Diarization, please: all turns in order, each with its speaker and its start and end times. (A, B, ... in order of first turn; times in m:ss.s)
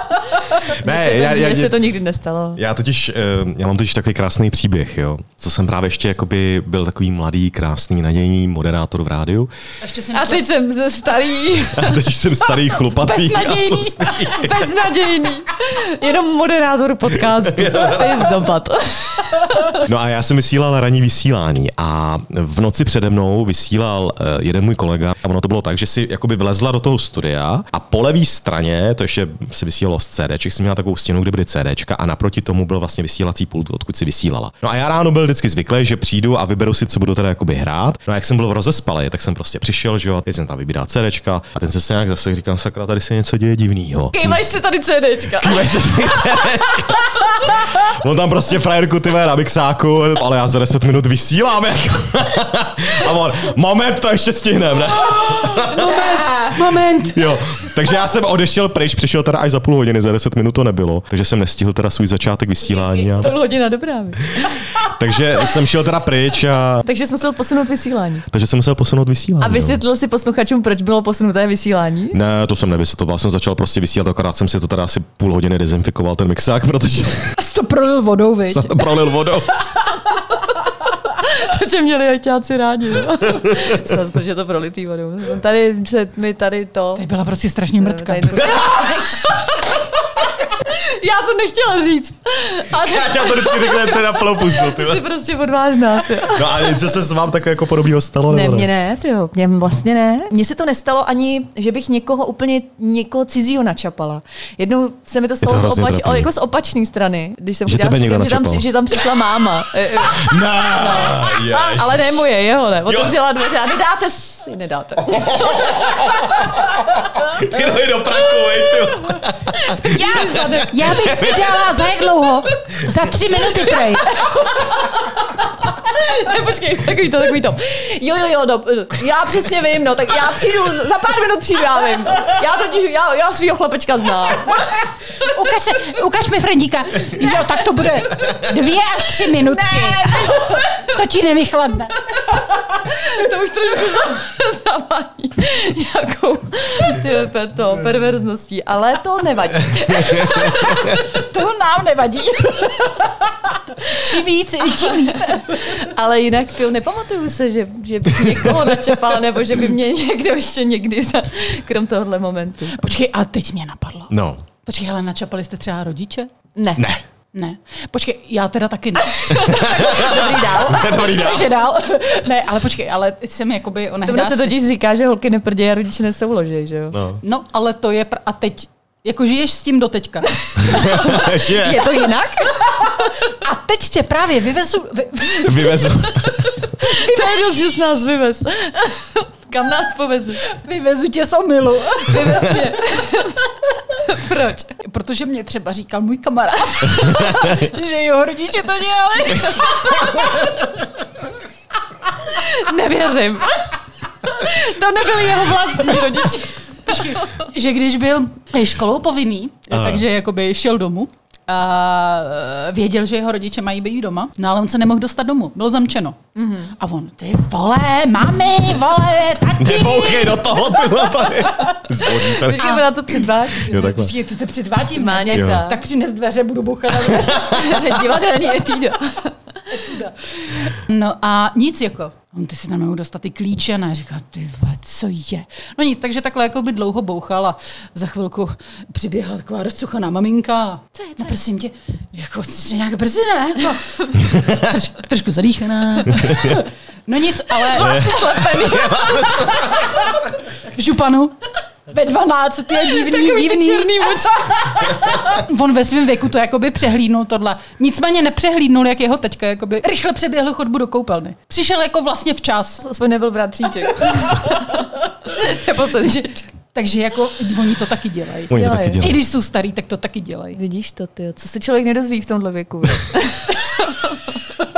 0:00.6-0:02.6 A
0:00.7-0:01.9 B
0:02.6-0:09.5 B
0:09.8-0:10.5 C
0:10.1-0:12.0 A
0:11.7-0:14.7 B
0:12.7-0:14.5 C
0:14.3-0:19.9 A
0:17.1-0:18.5 B
0:19.7-0:44.4 B
0:44.1-0:47.6 A
0:45.3-0:55.9 B
0:55.1-0:56.6 A
0:55.8-0:57.2 C
0:57.1-1:03.4 B
1:02.7-1:04.6 A
1:04.8-1:06.8 B
1:06.8-1:08.2 A
1:08.3-1:09.8 B
1:09.4-1:12.2 A
1:12.1-1:17.4 B
1:17.4-1:18.9 C
1:18.5-1:19.5 B
1:21.1-1:27.0 A
1:26.9-1:29.0 C
1:27.8-1:36.8 A
1:32.7-1:35.0 B
1:36.3-1:38.7 B
1:38.3-1:55.5 A
1:45.4-1:46.3 B
1:47.6-1:48.6 B
1:50.1-1:52.3 B
1:52.8-1:53.2 B
1:55.1-2:01.7 B
1:59.6-2:01.1 A
2:00.7-2:04.2 C
2:04.0-2:14.9 A
2:15.2-2:21.9 C
2:19.4-2:20.9 A
2:22.1-2:30.7 A
2:30.3-2:35.7 C
2:34.6-2:42.8 A
2:38.2-2:38.8 B
2:42.7-2:44.1 C
2:44.1-2:44.4 B
2:44.6-2:46.3 C
2:46.6-2:46.8 A
2:46.8-2:47.0 B
2:47.3-2:49.4 C
2:49.1-2:51.0 A
2:49.4-2:51.5 B
2:50.8-2:54.6 C
2:54.0-2:57.0 A
2:56.9-2:57.2 B
2:57.2-3:00.6 C
3:00.6-3:01.9 B
3:00.7-3:03.1 A
3:03.3-3:06.2 C
3:05.4-3:06.5 B
3:06.4-3:10.5 A
3:06.9-3:07.3 C
3:10.5-3:12.8 C
3:12.0-3:14.7 A
3:14.8-3:20.5 C
3:16.9-3:17.3 A
3:19.3-3:20.3 A
3:22.2-3:23.7 A
3:24.2-3:27.5 A
3:26.8-3:36.2 C
3:29.7-3:30.0 B
3:36.3-3:36.7 A
3:36.8-3:41.8 C
3:39.6-3:42.8 B
3:42.0-3:43.9 A
3:42.4-3:42.8 C
3:43.6-3:44.1 B
3:43.6-3:47.9 C
3:44.9-3:45.8 A
3:45.3-3:45.6 B
3:47.4-3:49.3 A
3:49.7-4:11.3 C
4:06.1-4:06.6 B
4:07.5-4:09.4 A
4:07.8-4:10.0 B
4:11.9-4:22.8 C
4:12.7-4:14.8 A
4:22.8-4:26.5 A
4:24.3-4:24.5 C
4:26.7-4:30.6 C
4:28.5-4:29.2 B
4:28.5-4:29.1 A
4:30.5-4:34.4 A